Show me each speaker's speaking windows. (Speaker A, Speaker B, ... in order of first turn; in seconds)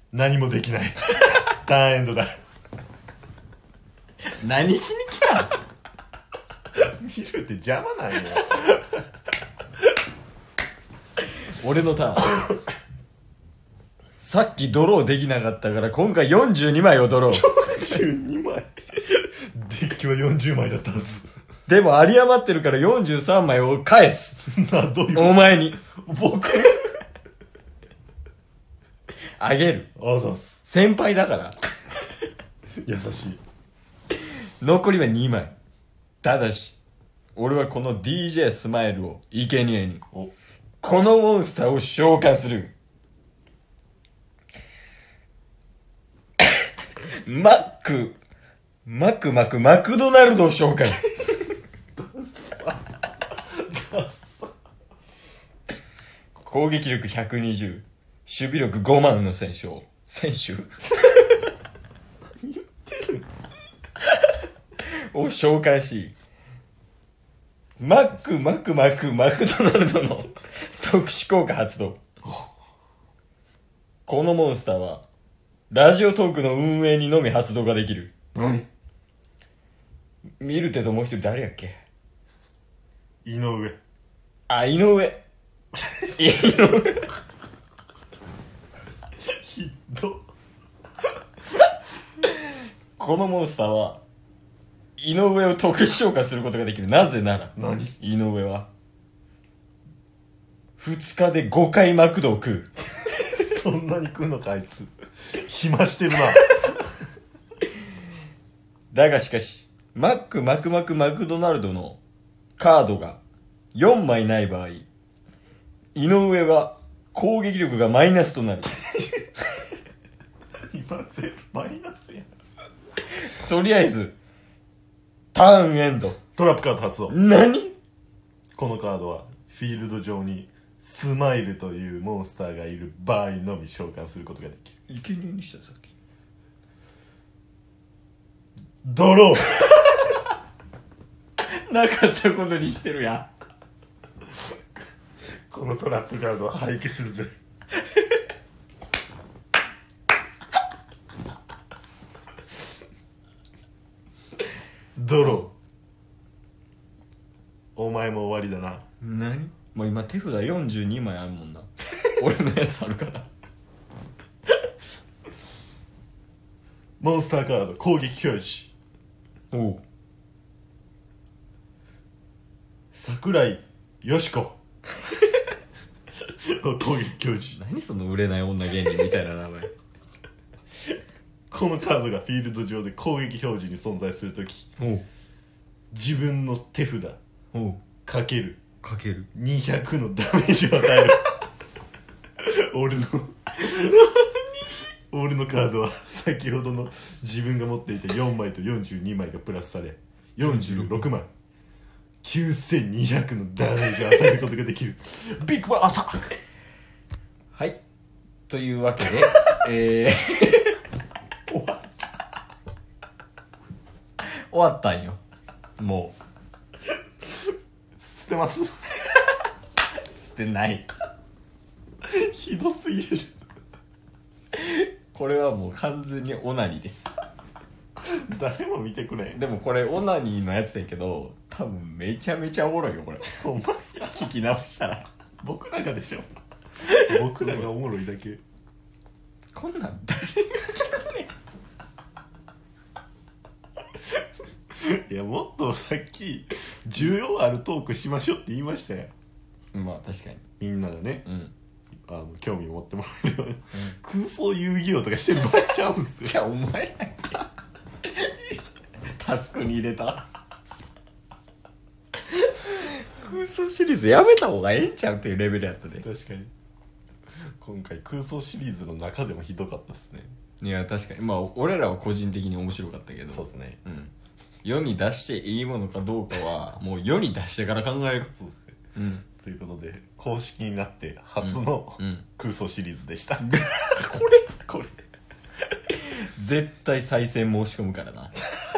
Speaker A: 0.1-2.3, 7.0-8.7, 12.2-12.6, 17.3-21.3, 24.4-27.0, 30.0-30.6, 32.8-33.4, 52.0-52.8, 53.6-54.5, 62.4-63.3, 78.3-78.6, 83.2-83.8, 85.7-86.8, 89.3-90.3, 97.5-98.0, 103.4-104.9, 105.4-106.5, 120.7-122.3, 126.4-127.2, 128.6-134.8, 138.8-139.7, 145.5-147.3, 155.0-155.5, 157.8-158.8, 167.0-168.7, 172.9-174.6, 176.5-177.6, 181.5-184.7, 185.9-187.2, 188.1-188.6, 189.3-191.3, 192.4-201.3, 202.2-206.3, 218.0-218.9, 222.1-223.4, 228.1-229.4, 233.2-234.3, 235.4-236.3, 237.0-238.4, 244.8-249.1, 250.6-251.3, 252.0-256.4, 266.0-266.5, 267.6-270.3, 273.3-273.8, 278.3-278.8, 279.4-283.5
Speaker B: 4.4-5.5, 11.5-12.3, 14.2-18.0, 21.7-24.4, 25.1-25.8, 29.4-29.9, 30.6-31.6, 34.6-35.5, 36.2-36.8, 37.4-40.0, 40.8-42.7, 47.2-48.2, 48.9-51.0, 56.4-60.8, 65.1-66.2, 67.8-72.0, 74.1-75.0, 75.7-78.1, 80.4-81.8, 84.5-85.2, 86.2-87.1, 93.0-94.0, 95.0-98.7, 100.8-102.7, 108.9-112.0, 112.6-113.2, 113.7-114.9, 116.0-118.7, 123.2-124.2, 125.3-126.2, 127.1-127.8, 134.9-135.9, 141.4-143.3, 155.2-155.5, 159.0-163.3, 169.5-169.8, 177.6-179.7, 184.8-185.1, 187.5-187.8, 188.8-189.3, 200.4-201.0, 207.5-207.8, 208.5-210.8, 214.2-215.2, 215.8-216.2, 219.9-220.9, 224.5-227.1, 229.3-233.3, 234.0-235.1, 236.8-237.7, 239.5-241.3, 249.7-250.4, 251.3-251.5, 256.2-257.5, 258.1-258.5, 259.2-260.3, 262.3-266.1, 270.6-274.1, 274.6-278.3, 278.9-279.2, 281.4-282.2, 283.4-284.8, 286.0-288.3